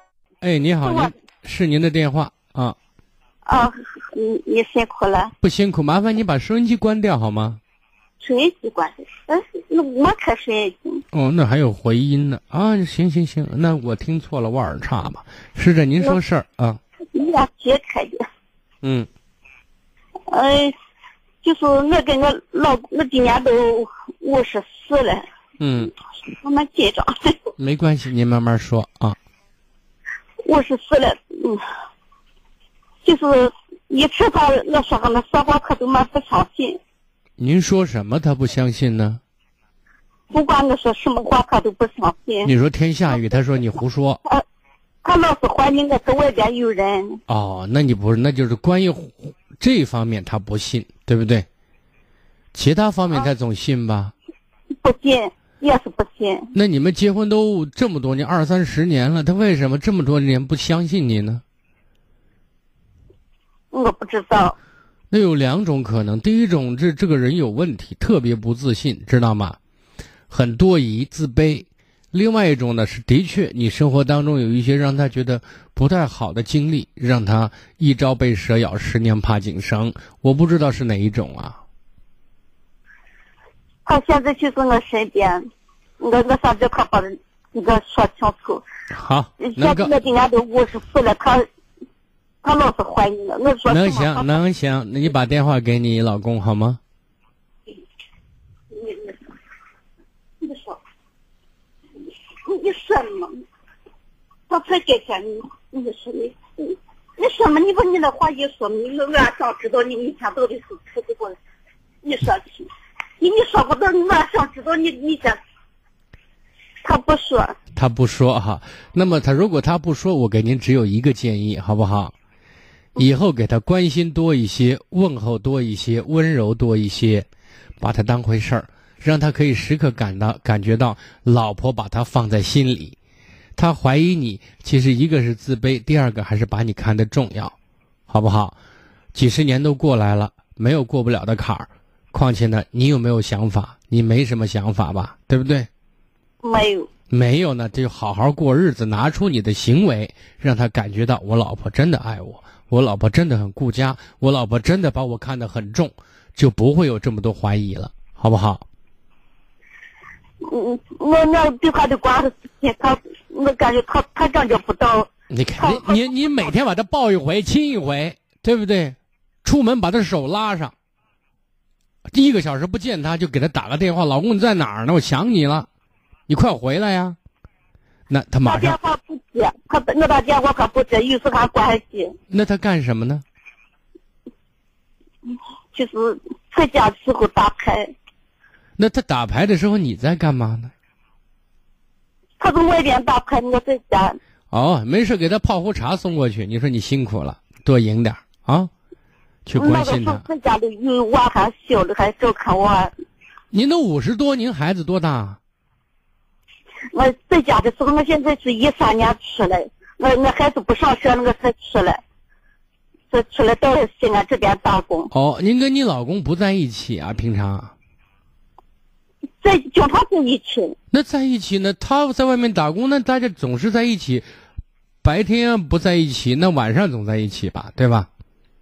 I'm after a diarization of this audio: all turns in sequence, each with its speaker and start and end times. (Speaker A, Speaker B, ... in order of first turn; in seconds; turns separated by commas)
Speaker A: 0.4-2.8, Speaker B: 0.8-1.1, Speaker B: 3.5-5.3, Speaker A: 5.4-7.6, Speaker B: 8.2-11.0, Speaker A: 11.1-16.8, Speaker B: 17.1-18.2, Speaker A: 18.8-19.1, Speaker B: 20.3-20.8, Speaker B: 21.4-25.3, Speaker A: 25.6-25.9, Speaker B: 26.3-27.4, Speaker A: 27.6-29.2, Speaker B: 30.4-31.6, Speaker B: 33.0-36.8, Speaker A: 37.4-39.2, Speaker B: 40.3-42.5, Speaker A: 42.4-44.2, Speaker B: 45.0-47.2, Speaker A: 47.3-51.5, Speaker A: 52.5-54.1, Speaker B: 54.8-56.5, Speaker A: 56.5-61.4, Speaker B: 63.7-64.6, Speaker A: 65.1-69.6, Speaker A: 70.3-81.6, Speaker B: 83.9-85.5, Speaker B: 86.0-88.6, Speaker A: 88.9-89.9, Speaker B: 89.4-91.5, Speaker B: 92.4-94.4, Speaker A: 93.7-96.8, Speaker B: 98.7-99.2, Speaker B: 100.4-100.8, Speaker B: 102.5-103.4, Speaker B: 104.5-111.4, Speaker B: 112.0-112.7, Speaker B: 113.2-115.4, Speaker B: 116.8-117.6, Speaker A: 117.8-122.1, Speaker A: 123.0-127.3, Speaker A: 127.8-133.0, Speaker A: 133.6-137.5, Speaker A: 138.1-138.6, Speaker A: 139.1-145.7, Speaker B: 146.4-146.9, Speaker A: 147.1-158.7, Speaker B: 160.4-166.0, Speaker A: 165.3-170.7, Speaker A: 172.1-175.7, Speaker A: 176.3-177.2, Speaker A: 178.1-178.8, Speaker B: 178.4-182.2, Speaker A: 182.3-183.2, Speaker B: 185.7-187.9, Speaker A: 188.8-190.7, Speaker B: 192.4-194.2, Speaker A: 194.5-198.7, Speaker A: 199.5-200.2, Speaker B: 199.6-202.9, Speaker A: 203.5-205.4, Speaker B: 206.9-212.0, Speaker B: 213.1-215.1, Speaker A: 215.1-217.7, Speaker B: 219.4-220.8, Speaker A: 220.9-224.3, Speaker A: 225.0-228.1